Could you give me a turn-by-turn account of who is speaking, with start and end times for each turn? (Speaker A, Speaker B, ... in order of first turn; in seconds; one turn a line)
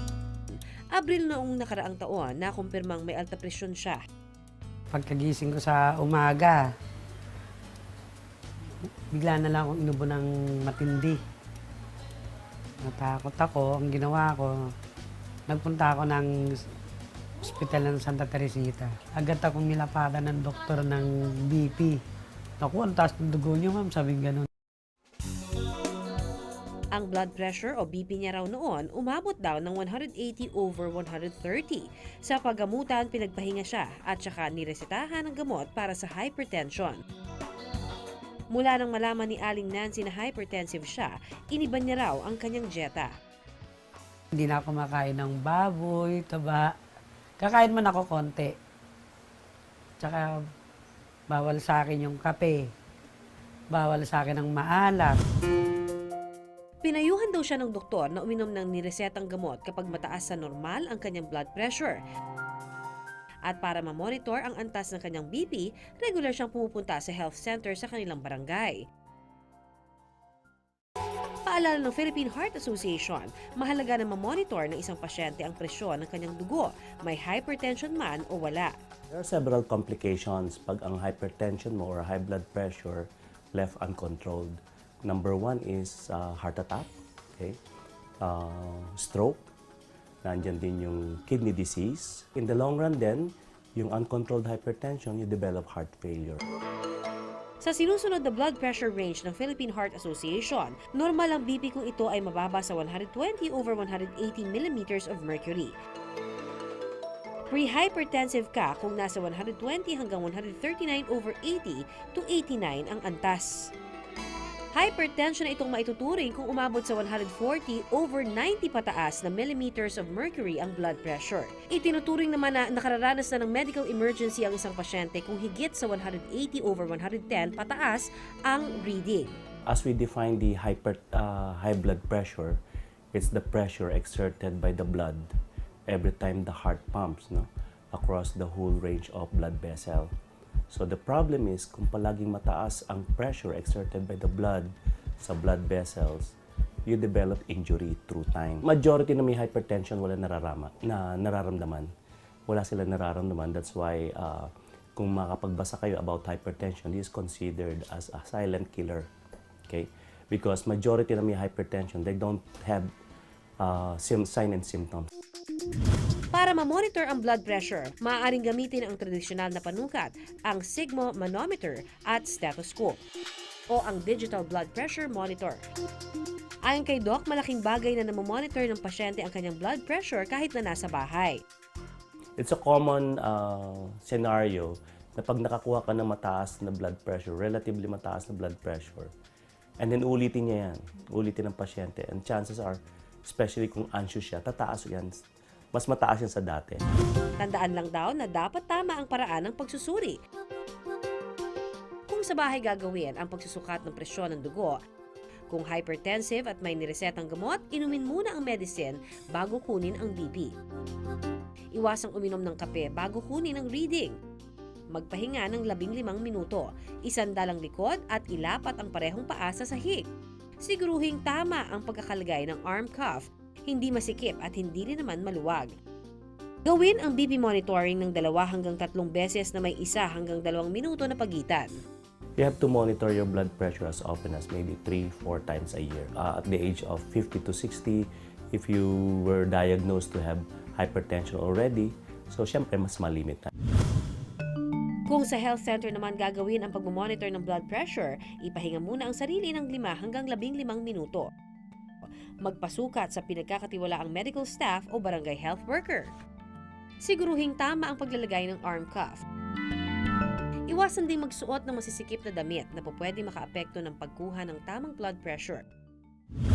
Speaker A: 0.9-4.0
Speaker B: 4.9-6.6
Speaker B: 8.8-11.2
Speaker B: 12.8-14.7
Speaker B: 15.5-16.3
Speaker B: 17.4-22.0
Speaker B: 22.6-24.5
Speaker A: 26.9-37.0
Speaker A: 38.5-43.1
Speaker B: 44.3-46.7
Speaker B: 47.4-48.5
Speaker B: 50.0-50.4
Speaker B: 51.3-52.6
Speaker B: 53.7-55.2
Speaker A: 56.8-62.0
Speaker A: 63.5-68.8
Speaker A: 71.5-78.7
Speaker C: 79.1-87.6
Speaker C: 88.2-89.4
Speaker C: 90.2-96.4
Speaker A: 97.6-105.7
Speaker A: 107.5-113.7
Speaker A: 114.7-129.3
Speaker C: 129.7-132.6
Speaker C: 133.1-135.3
Speaker C: 135.9-140.1
Speaker C: 140.7-146.3
Speaker C: 146.9-151.9
Speaker C: 152.5-159.1
Speaker C: 159.7-162.9
Speaker C: 163.6-165.1
Speaker A: 166.3-173.0
Speaker A: 173.7-175.6
Speaker A: 176.7-181.4
Speaker C: 182.4-189.1
Speaker C: 189.8-195.1
Speaker C: 195.7-196.8
Speaker A: 197.4-200.2
Speaker A: 202.1-204.8
Speaker A: 205.5-210.6
Speaker A: 211.7-214.2
Speaker A: 214.9-220.1
Speaker A: 220.6-225.7
Speaker A: 226.6-231.8
Speaker C: 232.4-243.5
Speaker A: 245.1-251.3
Speaker A: 252.4-256.1
Speaker A: 257.0-259.2
Speaker A: 260.7-265.6